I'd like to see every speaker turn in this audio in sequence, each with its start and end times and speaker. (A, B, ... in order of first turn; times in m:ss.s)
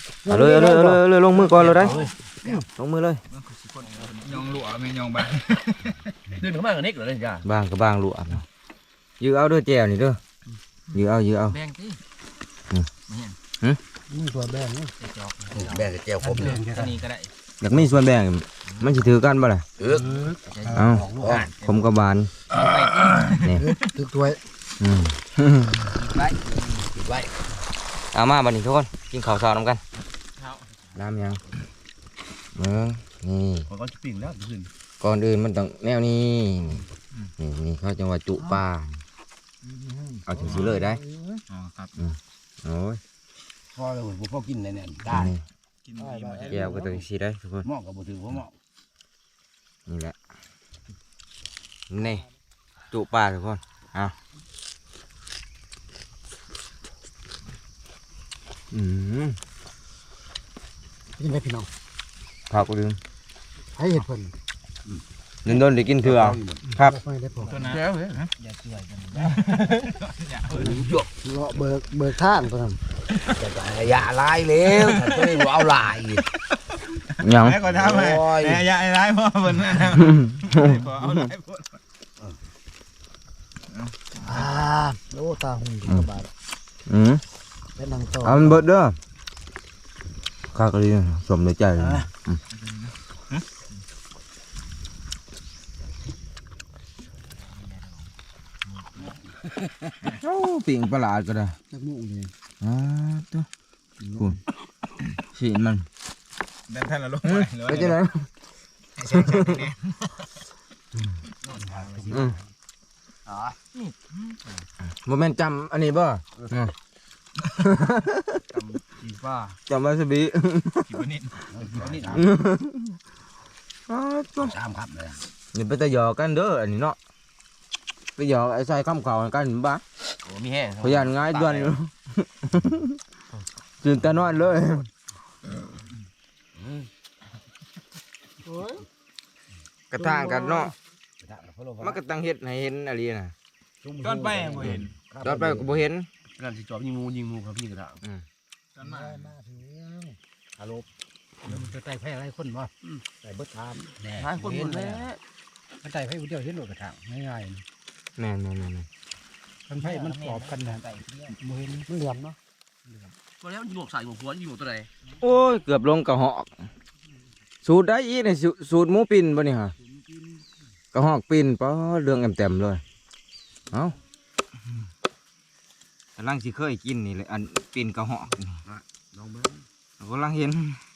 0:00.2-0:01.0 A
0:00.3-0:02.0 B
0:01.4-0:02.6 C
0:01.6-0:02.5 D
0:02.6-0:03.2 B
0:03.3-0:06.1 C
0:06.3-0:07.4 D
0:07.4-0:08.5 B
0:09.2-0:10.2 B
0:10.9-0:11.6 B
0:11.6-0:12.0 D
0:14.1-0:15.0 A
0:15.0-0:15.9 C
0:15.5-0:16.8 D
0:16.2-0:17.0 A
0:16.6-0:17.3 C
0:17.6-0:19.7 B
0:19.8-0:20.2 D
0:19.9-0:21.8 C
0:20.0-0:21.5 A
0:20.7-0:21.1 B
0:21.0-0:21.5 D
0:21.6-0:22.3 B
0:22.5-0:23.8 C
0:23.4-0:23.7 B
0:23.5-0:24.4 A
0:24.8-0:25.9 B
0:25.9-0:26.9 C
0:26.9-0:27.3 D
0:28.1-0:29.8 B
0:30.4-0:30.7 C
0:31.0-0:31.4 B
0:32.6-0:33.7 B
0:33.7-0:34.7 D
0:35.0-0:36.8 B
0:37.4-0:39.0 B
0:39.6-0:41.4 A
0:40.3-0:41.0 B
0:40.4-0:40.8 C
0:41.5-0:41.9 C
0:42.0-0:43.0 B
0:43.7-0:45.3 D
0:45.1-0:45.4 B
0:45.8-0:46.8 C
0:46.0-0:46.9 A
0:46.5-0:47.7 B
0:47.6-0:48.6 D
0:49.9-0:50.2 B
0:51.9-0:52.2 B
0:52.9-0:54.2 B
0:58.7-0:59.4 B
1:01.2-1:01.7 A
1:02.5-1:03.0 B
1:03.8-1:04.4 A
1:05.4-1:07.0 B
1:05.5-1:06.6 D
1:06.7-1:07.7 A
1:07.4-1:10.9 C
1:07.6-1:08.2 D
1:10.6-1:11.1 D
1:10.7-1:12.8 A
1:13.2-1:16.3 D
1:14.8-1:15.4 C
1:16.3-1:21.8 C
1:17.2-1:17.6 B
1:17.6-1:18.7 D
1:20.1-1:21.1 B
1:23.7-1:24.4 C
1:24.2-1:26.3 A
1:26.9-1:27.2 B
1:27.8-1:28.6 A
1:28.2-1:29.0 B
1:30.5-1:32.4 B
1:32.5-1:33.5 C
1:37.4-1:38.1 C
1:38.6-1:39.2 C
1:40.1-1:41.6 B
1:41.7-1:42.3 A
1:42.6-1:43.5 B
1:44.0-1:44.3 A
1:44.1-1:44.4 B
1:45.3-1:45.9 B
1:46.7-1:48.0 C
1:47.2-1:48.3 B
1:49.0-1:50.3 C
1:49.1-1:49.6 B
1:51.4-1:52.3 D
1:51.5-1:52.2 A
1:52.1-1:52.4 B
1:53.3-1:53.7 D
1:53.8-1:54.6 C
1:54.9-1:56.7 B
1:57.6-1:58.4 B
1:58.5-1:59.6 D
1:59.7-2:01.0 B
2:00.8-2:02.3 C
2:01.5-2:02.3 D
2:02.1-2:03.0 B
2:03.9-2:04.6 B
2:04.4-2:05.2 D
2:05.5-2:07.0 B
2:08.2-2:09.8 B
2:10.2-2:11.8 D
2:10.8-2:13.0 B
2:13.8-2:14.9 B
2:16.6-2:16.9 D
2:18.4-2:18.9 A
2:19.9-2:20.7 B
2:20.0-2:20.7 A
2:21.2-2:22.0 D
2:21.8-2:23.3 B
2:23.8-2:25.8 D
2:24.0-2:24.9 C
2:25.2-2:26.1 B
2:26.3-2:28.0 D
2:28.8-2:29.4 C
2:28.8-2:30.2 A
2:30.6-2:30.9 D
2:31.4-2:32.7 A
2:33.1-2:35.1 D
2:34.2-2:35.2 B
2:34.4-2:34.7 A
2:35.8-2:37.6 A
2:38.2-2:38.9 B
2:39.7-2:42.4 A
2:43.4-2:44.9 D
2:45.2-2:46.5 B
2:47.6-2:49.8 B
2:49.9-2:50.4 D
2:50.9-2:52.8 B
2:53.7-2:54.0 B
2:56.2-2:58.6 B
2:58.7-2:59.7 D
3:00.0-3:00.8 B